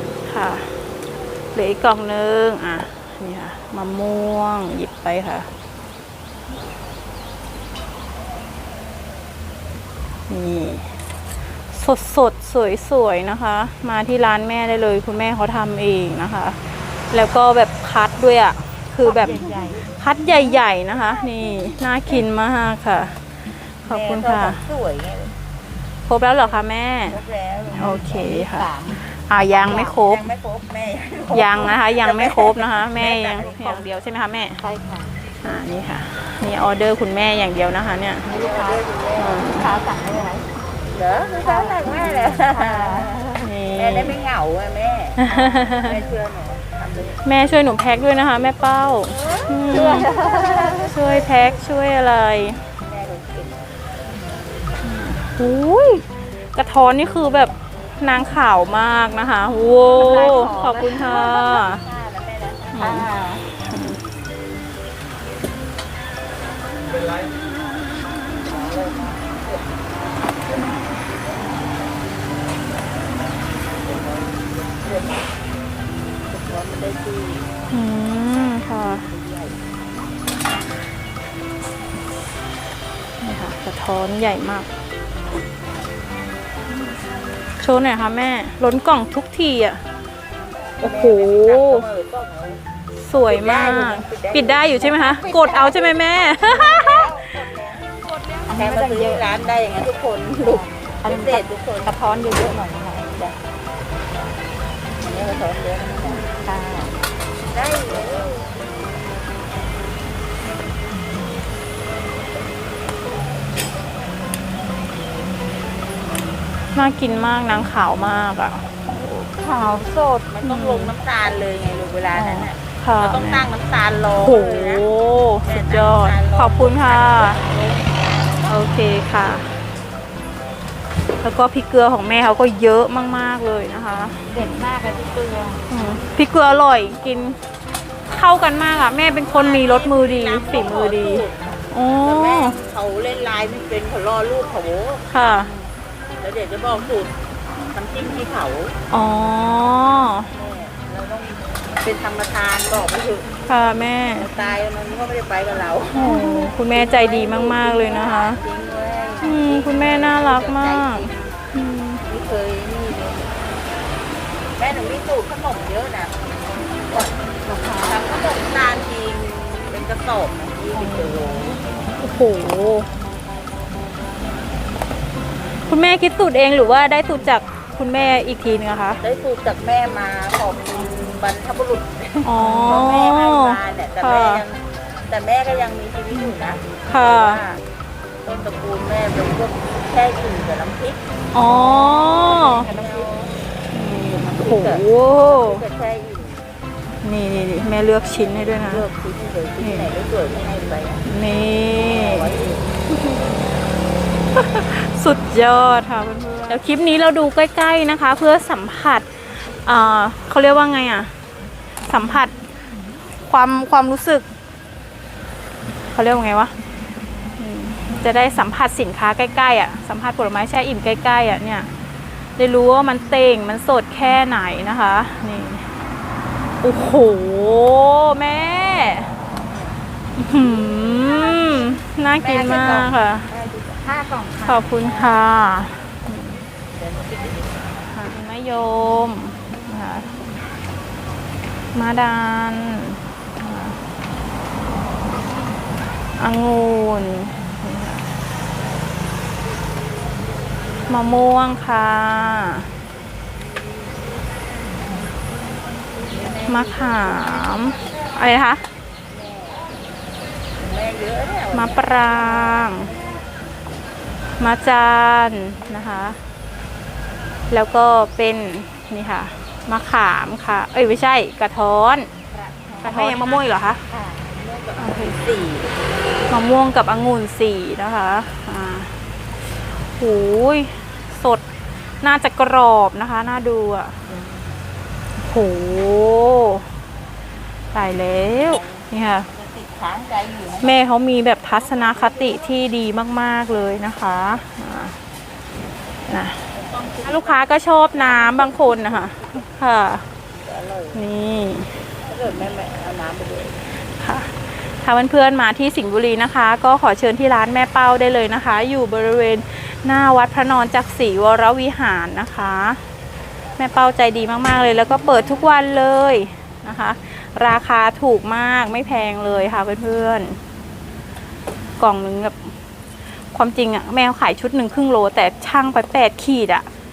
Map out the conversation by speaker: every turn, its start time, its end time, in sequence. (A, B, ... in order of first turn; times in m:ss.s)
0:00.2-0:00.7 A
0:01.5-0:05.5 A
0:10.3-0:11.0 A
0:11.7-0:23.2 A
0:19.3-0:19.6 B
0:23.8-0:24.6 A
0:23.9-0:25.4 C
0:26.1-0:27.2 A
0:26.4-0:28.4 C
0:27.7-0:30.3 A
0:28.3-0:29.0 B
0:29.5-0:33.8 C
0:31.3-0:34.6 A
0:34.6-0:35.2 B
0:35.4-0:38.3 A
0:38.2-0:38.7 B
0:38.2-0:39.5 C
0:39.2-0:39.7 A
0:39.6-0:40.5 B
0:40.9-0:47.2 C
0:41.5-0:41.8 B
0:42.4-0:43.1 B
0:43.4-0:44.2 A
0:45.2-0:45.9 A
0:47.2-0:52.6 A
0:49.1-0:51.3 C
0:52.8-0:53.8 C
0:54.8-0:56.0 A
0:56.5-1:01.8 A
0:59.9-1:03.1 C
1:02.7-1:04.0 A
1:16.2-1:17.6 C
1:17.7-1:19.0 A
1:18.7-1:19.6 C
1:23.2-1:24.7 A
1:27.6-1:29.8 A
1:30.8-1:32.7 C
1:30.8-1:31.8 A
1:33.0-1:37.1 A
1:33.2-1:37.9 C
1:38.5-1:39.2 B
1:38.5-1:43.4 C
1:40.5-1:43.1 B
1:45.0-1:46.3 C
1:46.2-1:47.0 B
1:47.5-1:48.5 C
1:56.7-1:59.3 A
1:59.4-2:00.2 B
2:00.3-2:04.9 C
2:00.4-2:00.9 A
2:02.1-2:03.5 A
2:04.2-2:07.4 A
2:05.4-2:08.5 C
2:08.4-2:09.5 A
2:11.2-2:14.7 A
2:14.4-2:15.6 B
2:15.7-2:17.4 A
2:18.1-2:22.6 A
2:19.3-2:27.1 C
2:25.1-2:25.5 A
2:27.7-2:28.8 C
2:28.9-2:30.3 A
2:30.3-2:33.3 C
2:33.5-2:34.2 A
2:34.1-2:41.3 C
2:36.0-2:38.4 A
2:39.2-2:42.0 A
2:42.0-2:43.4 C
2:44.6-2:47.2 C
2:47.5-2:47.9 B
2:47.8-2:51.6 C
2:50.7-2:51.2 A
2:52.0-2:52.9 A
2:55.7-2:59.0 A
2:59.0-3:07.6 C
3:02.2-3:04.4 A
3:06.9-3:07.4 A
3:08.2-3:13.4 C
3:11.3-3:12.7 A
3:13.7-3:15.6 A
3:14.1-3:16.5 C
3:17.0-3:18.9 A
3:18.4-3:21.0 C
3:19.6-3:19.9 A
3:21.0-3:22.3 A
3:21.7-3:22.7 C
3:22.9-3:23.2 A
3:24.3-3:31.1 A
3:31.8-3:32.3 A
3:33.2-3:34.2 A
3:35.9-3:36.5 A
3:37.4-3:41.7 A
3:42.4-3:45.7 A
3:46.6-3:49.1 A
3:49.5-3:49.8 C
3:50.2-3:53.3 A
3:50.4-3:53.9 C
3:53.8-3:54.8 B
3:54.4-3:56.4 A
3:56.7-3:57.9 C
3:57.9-4:00.1 A
4:01.7-4:03.8 A
4:06.2-4:08.0 A
4:10.9-4:12.7 A
4:16.1-4:17.7 C
4:16.5-4:18.6 A
4:19.1-4:19.7 C
4:20.6-4:23.0 C
4:21.5-4:22.9 A
4:24.4-4:26.2 A
4:27.5-4:32.1 A
4:32.3-4:33.2 B
4:32.8-4:33.8 A
4:33.9-4:34.2 B
4:34.3-4:35.8 C
4:34.8-4:35.2 A
4:36.3-4:38.9 A
4:39.7-4:41.4 A
4:42.0-4:44.0 A
4:44.1-4:44.6 C
4:45.2-4:46.7 A
4:47.7-4:49.3 A
4:48.4-4:50.8 C
4:50.6-4:55.0 A
4:56.1-4:56.5 A
4:56.5-4:59.5 C
4:57.0-5:00.0 A
5:00.3-5:01.1 C
5:00.9-5:01.7 A
5:01.9-5:03.6 C
5:03.7-5:12.8 A
5:13.6-5:20.4 A
5:21.8-5:22.5 A
5:23.3-5:26.7 A